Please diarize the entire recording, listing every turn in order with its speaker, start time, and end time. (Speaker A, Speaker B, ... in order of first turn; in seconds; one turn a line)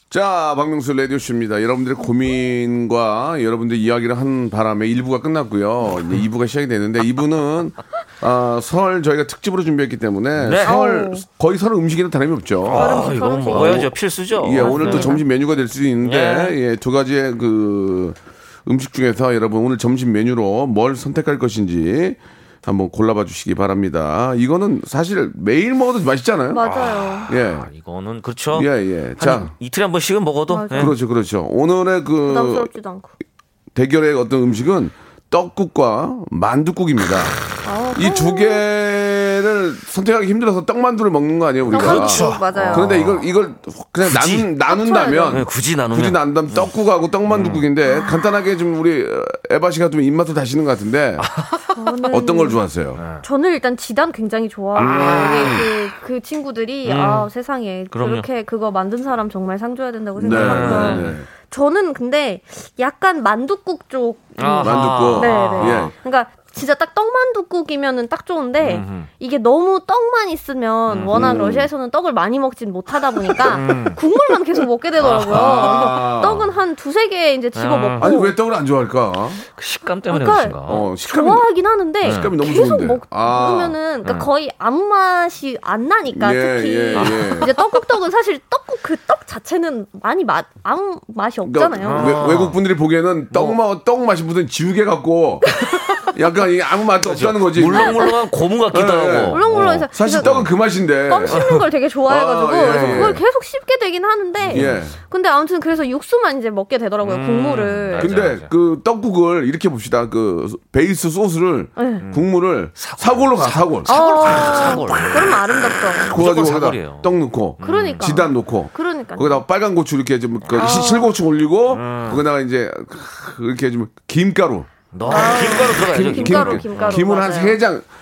Speaker A: 0.1-26.6
Speaker B: 10.4-10.7
Speaker C: 10.6-11.2
Speaker B: 12.7-15.2
Speaker C: 12.7-13.9
Speaker C: 14.6-15.2
Speaker B: 16.0-16.5
Speaker C: 26.5-27.3
Speaker B: 26.6-30.9
Speaker A: 27.3-27.7
Speaker A: 28.5-29.5
Speaker C: 30.5-30.9
Speaker A: 30.7-32.7
Speaker C: 32.2-33.1
Speaker A: 33.7-37.4
Speaker C: 37.6-38.6
Speaker A: 37.9-51.3
Speaker C: 41.7-42.9
Speaker B: 41.7-43.2
Speaker B: 44.0-44.5
Speaker C: 44.7-45.4
Speaker B: 45.3-46.7
Speaker B: 47.3-47.6
Speaker C: 47.9-48.2
Speaker B: 51.2-51.9
Speaker C: 51.8-52.6
Speaker A: 52.1-53.0
Speaker B: 53.0-53.2
Speaker C: 53.2-78.3
Speaker A: 54.7-55.7
Speaker B: 54.8-55.8
Speaker B: 56.8-57.3
Speaker B: 57.9-58.2
Speaker A: 60.2-61.3
Speaker B: 60.3-61.1
Speaker B: 64.4-65.9
Speaker A: 64.6-65.9
Speaker B: 68.6-69.1
Speaker B: 70.9-71.3
Speaker A: 71.1-71.7
Speaker B: 73.4-74.0
Speaker B: 75.0-75.8
Speaker A: 75.1-76.5
Speaker B: 77.5-78.1
Speaker A: 78.0-79.4
Speaker B: 79.5-80.9
Speaker C: 80.1-92.2
Speaker A: 80.7-81.5
Speaker A: 82.0-83.8
Speaker B: 82.0-82.3
Speaker A: 86.1-87.5
Speaker B: 86.9-87.5
Speaker A: 91.5-98.1
Speaker B: 91.8-92.6
Speaker B: 93.3-93.6
Speaker B: 95.7-96.0
Speaker B: 97.0-100.5
Speaker C: 97.8-98.1
Speaker A: 98.7-101.5
Speaker C: 99.3-100.4
Speaker C: 101.0-108.1
Speaker B: 101.3-101.6
Speaker A: 102.0-103.2
Speaker B: 102.6-103.2
Speaker B: 104.4-104.8
Speaker A: 104.5-104.9
Speaker B: 107.0-108.5
Speaker A: 108.0-115.0
Speaker C: 111.8-112.0
Speaker B: 112.0-118.1
Speaker C: 113.9-116.1
Speaker A: 116.1-127.8
Speaker C: 117.6-119.4
Speaker B: 120.4-120.9
Speaker C: 120.5-121.1
Speaker B: 121.7-122.2
Speaker B: 124.9-127.0
Speaker C: 125.1-127.6